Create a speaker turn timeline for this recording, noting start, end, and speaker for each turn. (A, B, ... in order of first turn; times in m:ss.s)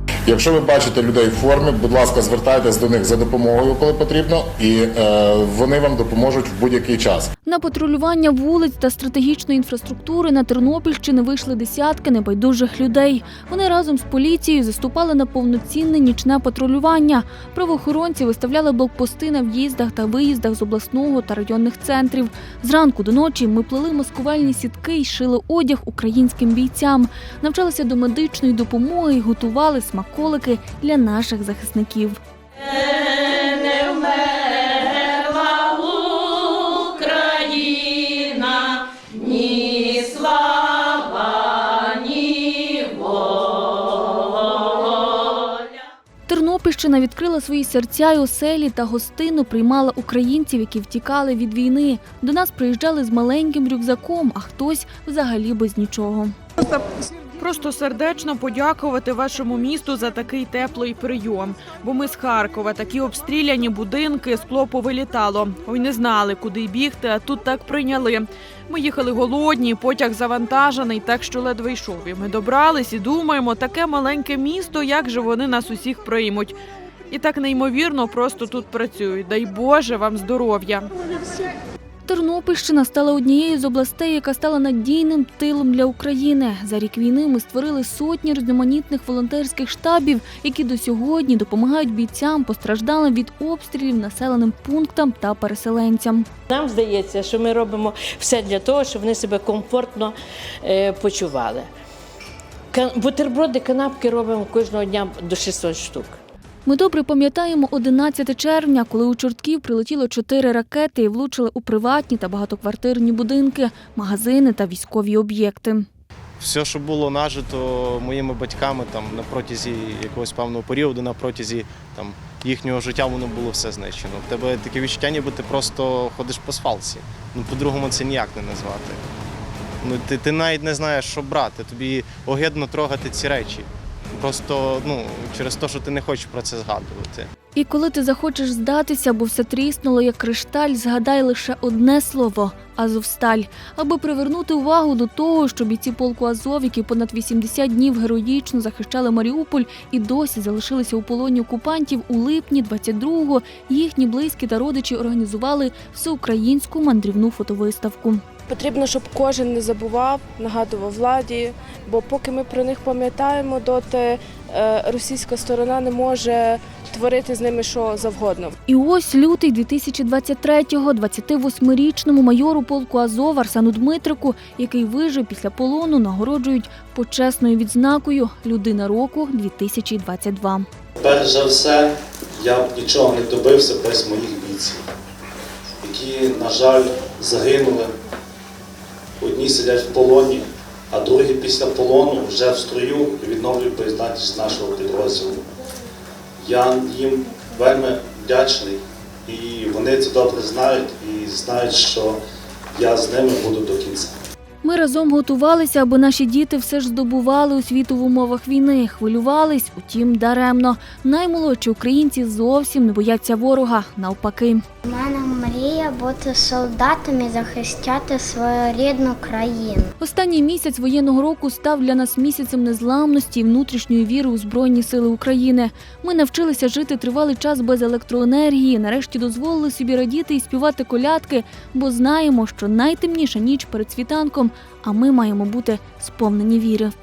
0:00.3-0:07.3 A
0:07.4-0:32.2 B
0:46.3-0:56.3 B
0:57.4-1:16.6 C
1:17.1-1:20.9 C
1:22.1-1:36.3 B
1:36.5-1:41.7 D
1:42.7-1:46.2 D
1:46.6-1:55.9 B
1:56.4-2:09.0 E
2:09.8-2:17.3 E
2:17.5-2:38.2 B
2:38.5-2:48.5 F
2:48.7-3:00.7 B
3:01.0-3:04.8 G
3:05.8-3:07.9 G
3:09.2-3:15.4 G
3:16.4-3:22.2 G
3:22.7-3:24.1 G
3:24.6-3:34.6 B
3:34.8-3:39.9 H
3:40.0-3:56.9 B